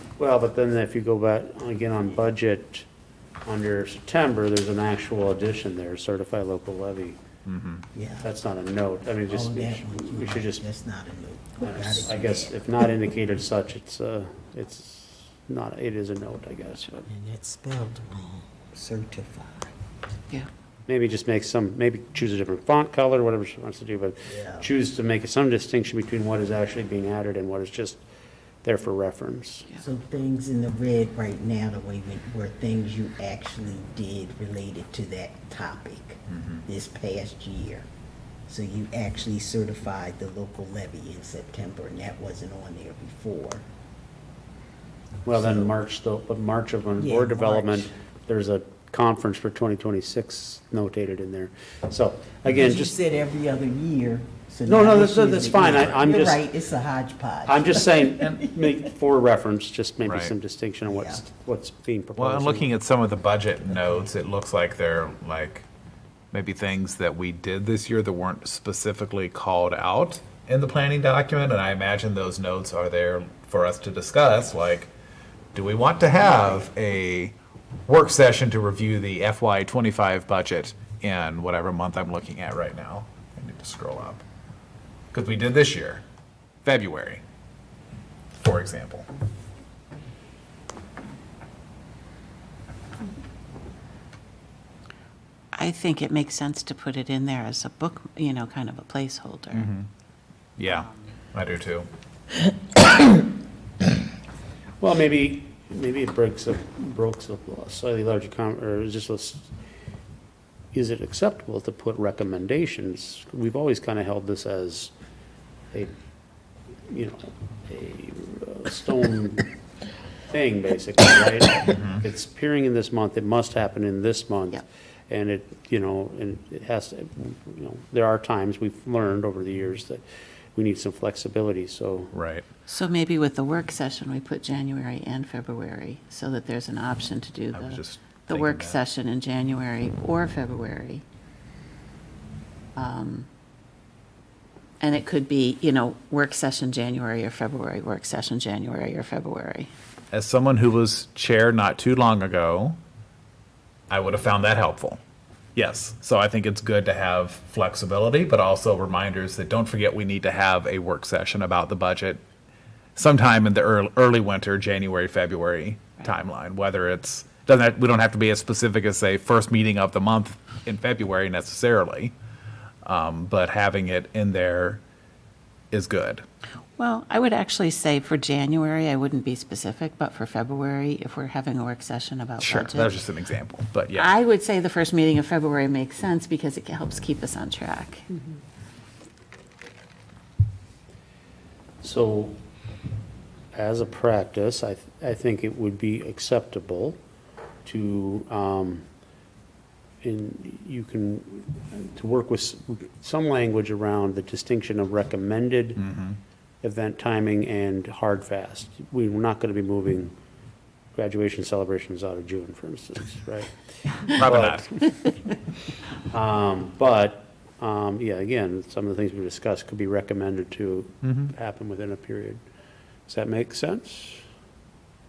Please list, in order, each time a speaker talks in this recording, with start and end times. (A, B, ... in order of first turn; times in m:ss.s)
0:00.2-0:02.9 A
0:03.5-0:07.2 A
0:07.5-0:07.8 B
0:07.9-0:08.3 C
0:08.2-0:10.6 A
0:09.3-0:12.6 C
0:11.6-0:17.1 A
0:17.1-0:19.7 C
0:20.9-0:28.0 A
0:24.3-0:24.7 C
0:28.6-0:29.7 A
0:29.8-0:37.9 C
0:38.5-0:43.6 C
0:45.2-0:53.0 A
0:45.3-0:45.7 C
0:47.0-0:47.9 C
0:52.5-0:58.7 C
0:54.7-0:56.4 A
0:57.5-1:02.8 A
1:00.1-1:00.3 B
1:00.9-1:01.2 C
1:02.2-1:05.7 B
1:03.7-1:04.1 C
1:06.3-1:14.9 B
1:15.5-1:17.4 B
1:16.2-1:16.6 D
1:17.9-1:24.2 B
1:25.1-1:26.0 B
1:26.6-1:27.2 B
1:28.4-1:29.1 B
1:35.6-1:39.7 D
1:39.5-1:39.9 B
1:40.6-1:41.9 B
1:44.8-1:49.5 A
1:50.7-1:54.9 A
1:56.9-1:59.5 A
2:00.3-2:10.0 A
2:01.6-2:02.0 B
2:10.6-2:12.1 A
2:12.1-2:12.5 B
2:12.7-2:21.0 D
2:17.5-2:18.8 B
2:22.8-2:23.3 D
2:24.8-2:29.7 D
2:30.1-2:32.8 B
2:33.9-2:35.0 B
2:35.6-2:42.2 B
2:43.0-2:52.2 B
2:52.8-2:54.8 B
2:55.7-2:56.2 B
2:56.8-3:03.0 D
3:02.4-3:04.1 B
3:04.0-3:08.0 D
3:11.8-3:12.4 A
3:13.5-3:17.0 A
3:17.6-3:18.8 A
3:20.0-3:25.8 A
3:25.8-3:26.2 B
3:26.6-3:30.2 A
3:31.0-3:34.9 A
3:34.1-3:34.7 B
3:36.1-3:42.4 A
3:41.0-3:41.3 B
3:43.1-3:44.2 A